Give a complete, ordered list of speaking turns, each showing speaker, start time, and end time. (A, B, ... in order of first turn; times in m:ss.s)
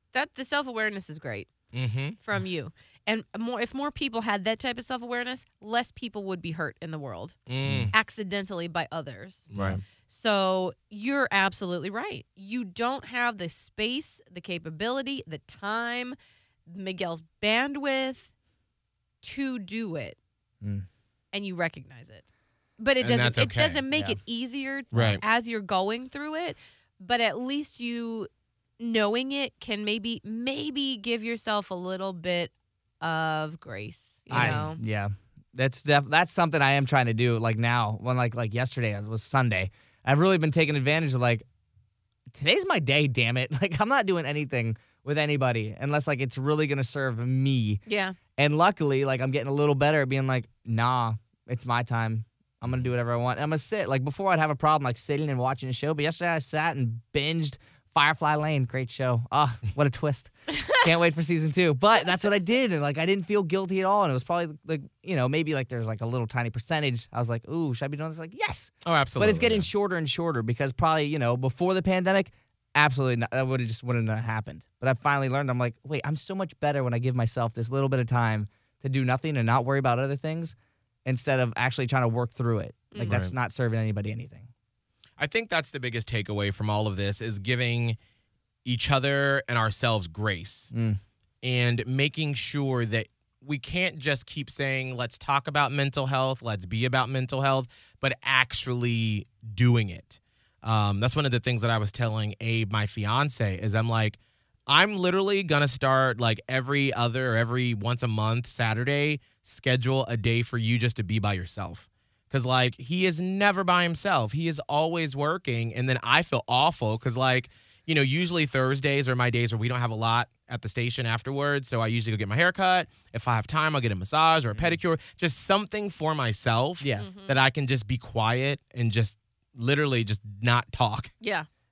0:00.1-0:01.5 A
0:01.7-0:02.2 B
0:02.2-0:07.3 A
0:07.5-0:07.9 B
0:07.6-0:07.9 C
0:07.9-0:09.5 A
0:09.5-0:09.8 B
0:09.5-0:09.8 C
0:10.0-0:16.2 A
0:16.7-0:18.3 A
0:19.2-0:20.2 A
0:20.6-0:20.9 C
0:21.3-0:22.2 A
0:22.8-0:34.8 A
0:23.0-0:23.8 B
0:23.9-0:24.2 C
0:24.9-0:25.2 B
0:34.3-0:34.6 B
0:34.3-0:41.4 C
0:42.3-0:47.8 C
0:47.9-0:48.2 A
0:48.4-1:24.5 C
1:08.8-1:09.7 B
1:22.9-1:23.2 A
1:23.0-1:23.3 B
1:25.2-1:28.0 B
1:28.6-1:30.7 B
1:30.7-1:31.0 C
1:31.4-2:11.1 B
2:06.8-2:07.1 C
2:07.0-2:07.4 A
2:11.2-2:11.5 A